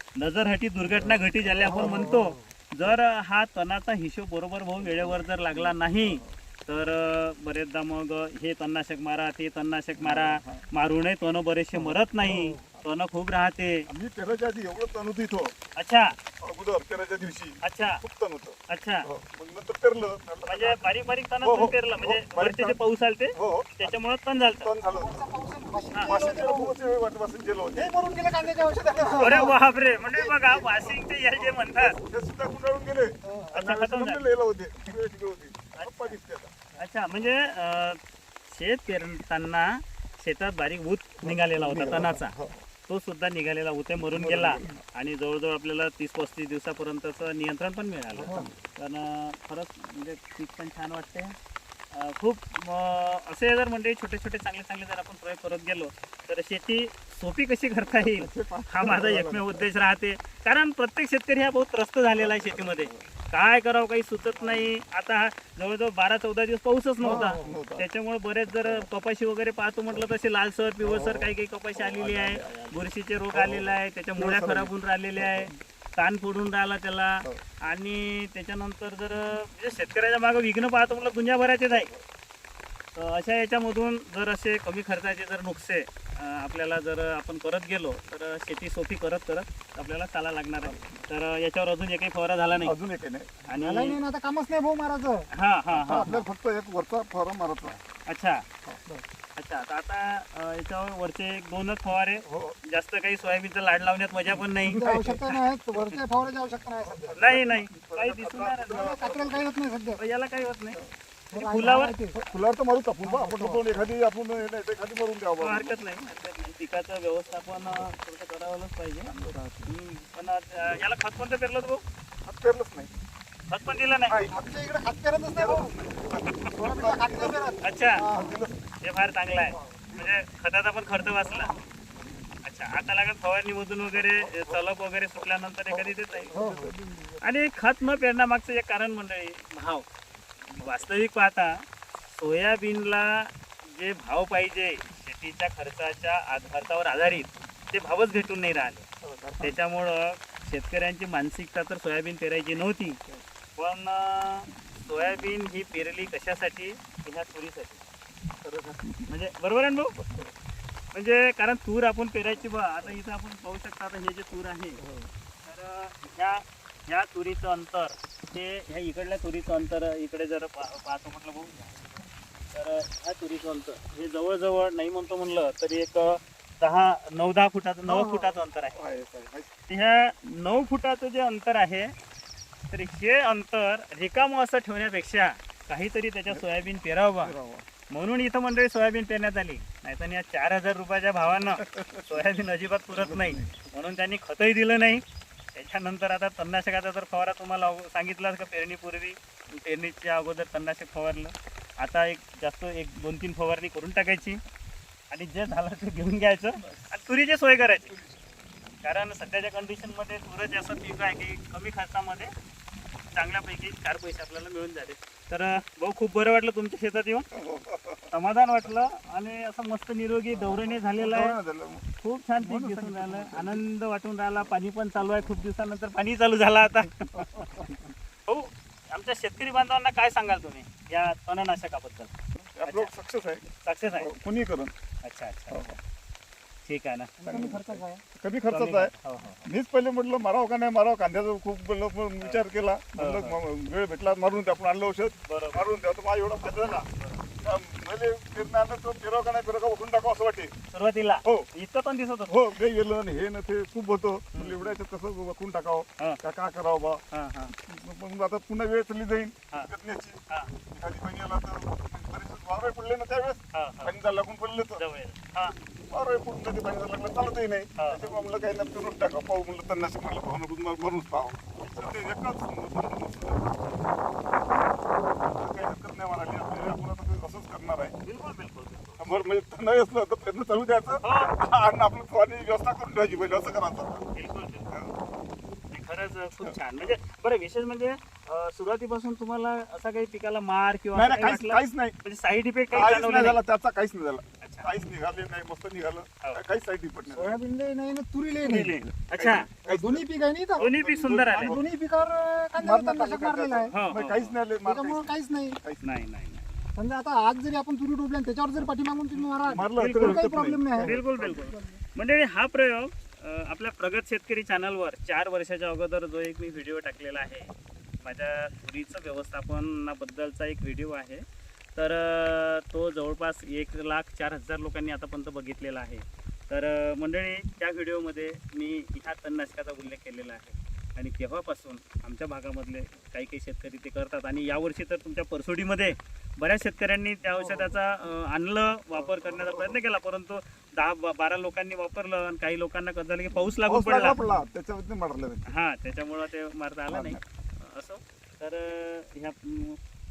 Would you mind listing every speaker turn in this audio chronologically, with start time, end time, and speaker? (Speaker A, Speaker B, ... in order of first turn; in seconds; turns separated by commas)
Speaker A: 0.2-13.9, Speaker B: 0.9-3.0, Speaker C: 1.6-2.4, Speaker B: 4.8-6.4, Speaker B: 10.0-10.7, Speaker C: 12.3-12.6, Speaker B: 13.9-15.6, Speaker A: 15.8-16.2, Speaker B: 16.4-20.9, Speaker A: 17.6-18.0, Speaker A: 18.7-19.1, Speaker A: 20.5-24.7, Speaker B: 21.4-22.8, Speaker B: 23.3-23.9, Speaker B: 24.6-25.2, Speaker C: 24.9-26.7, Speaker A: 25.9-26.2, Speaker B: 26.1-36.8, Speaker C: 27.8-29.6, Speaker A: 29.2-32.0, Speaker C: 33.2-33.5, Speaker A: 33.5-34.2, Speaker A: 35.8-36.2, Speaker A: 36.8-42.3, Speaker B: 41.2-42.6, Speaker A: 42.9-51.4, Speaker B: 44.1-44.8, Speaker B: 48.1-48.6, Speaker A: 51.9-81.9, Speaker B: 57.9-59.7, Speaker B: 62.2-63.1, Speaker B: 64.3-64.7, Speaker B: 67.0-67.9, Speaker C: 67.1-67.5, Speaker B: 68.5-68.9, Speaker B: 70.8-75.6, Speaker B: 81.7-82.0, Speaker A: 83.0-92.8, Speaker B: 90.6-91.1, Speaker B: 92.6-93.5, Speaker A: 93.5-94.0, Speaker C: 93.6-95.3, Speaker A: 95.3-96.2, Speaker B: 95.7-97.8, Speaker C: 95.9-96.2, Speaker A: 98.1-98.5, Speaker B: 98.7-99.0, Speaker A: 99.4-105.3, Speaker B: 102.2-102.6, Speaker B: 104.6-105.2, Speaker C: 104.7-107.3, Speaker B: 106.8-109.5, Speaker A: 107.2-109.2, Speaker C: 108.7-110.0, Speaker A: 110.0-110.8, Speaker A: 111.3-112.0, Speaker C: 111.3-112.2, Speaker B: 111.6-115.8, Speaker C: 113.0-113.7, Speaker A: 115.4-119.1, Speaker B: 119.1-119.7, Speaker A: 119.7-121.8, Speaker B: 122.2-123.0, Speaker A: 123.5-124.2, Speaker B: 124.1-124.5, Speaker C: 124.3-125.7, Speaker B: 125.3-128.7, Speaker C: 126.6-128.4, Speaker A: 127.6-128.0, Speaker A: 128.8-131.5, Speaker B: 129.4-130.2, Speaker A: 132.4-136.3, Speaker B: 133.9-134.6, Speaker B: 135.2-137.3, Speaker C: 136.3-136.7, Speaker A: 137.2-139.9, Speaker A: 140.6-148.9, Speaker B: 149.0-149.6, Speaker A: 149.4-153.0, Speaker A: 153.6-157.8, Speaker B: 158.4-159.1, Speaker A: 159.1-160.0, Speaker B: 160.0-160.3, Speaker A: 160.9-164.8, Speaker B: 164.8-165.1, Speaker A: 165.4-171.9, Speaker A: 172.5-178.8, Speaker B: 177.9-179.5, Speaker A: 179.7-181.9, Speaker A: 182.7-187.3, Speaker B: 187.2-187.7, Speaker A: 187.9-195.0, Speaker B: 191.4-192.2, Speaker B: 192.9-193.5, Speaker A: 195.5-204.4, Speaker A: 205.1-208.0, Speaker B: 207.9-208.2, Speaker A: 208.8-212.3, Speaker A: 213.1-217.3, Speaker B: 217.3-218.1, Speaker A: 218.1-221.4, Speaker B: 220.3-223.6, Speaker A: 222.0-227.5, Speaker B: 225.0-225.5, Speaker B: 227.1-227.9, Speaker A: 228.3-232.1, Speaker B: 232.4-234.7, Speaker A: 232.7-232.9, Speaker A: 233.6-234.1, Speaker A: 235.0-235.6, Speaker B: 235.5-235.8, Speaker A: 236.7-237.8, Speaker C: 237.2-238.0, Speaker B: 237.2-246.9, Speaker A: 238.5-239.4, Speaker A: 243.0-243.4, Speaker A: 245.3-245.7, Speaker A: 247.0-247.2, Speaker B: 247.4-250.5, Speaker A: 250.7-252.4, Speaker B: 252.3-257.0, Speaker A: 254.3-254.8, Speaker A: 257.1-257.5, Speaker B: 257.6-264.8, Speaker A: 263.5-263.9, Speaker A: 264.8-265.6, Speaker B: 265.9-273.9, Speaker A: 267.8-268.1, Speaker B: 275.2-278.0, Speaker A: 278.0-279.0, Speaker B: 279.0-284.1, Speaker A: 281.0-281.3, Speaker A: 284.1-284.7, Speaker B: 284.7-285.0, Speaker A: 285.7-293.4, Speaker B: 290.9-292.0, Speaker B: 292.7-297.4, Speaker A: 294.4-294.7, Speaker C: 297.1-298.8, Speaker A: 298.4-299.5, Speaker B: 298.5-301.7, Speaker C: 299.6-300.7, Speaker A: 300.6-301.6, Speaker C: 301.4-303.8, Speaker B: 302.6-305.9, Speaker A: 303.7-304.4, Speaker C: 304.6-305.6, Speaker A: 305.8-306.7, Speaker C: 306.8-311.8, Speaker B: 309.5-311.4, Speaker A: 309.8-321.2, Speaker A: 321.8-344.2, Speaker B: 337.4-337.8, Speaker B: 338.9-339.8, Speaker B: 343.7-345.5, Speaker A: 345.5-349.8, Speaker B: 346.9-347.2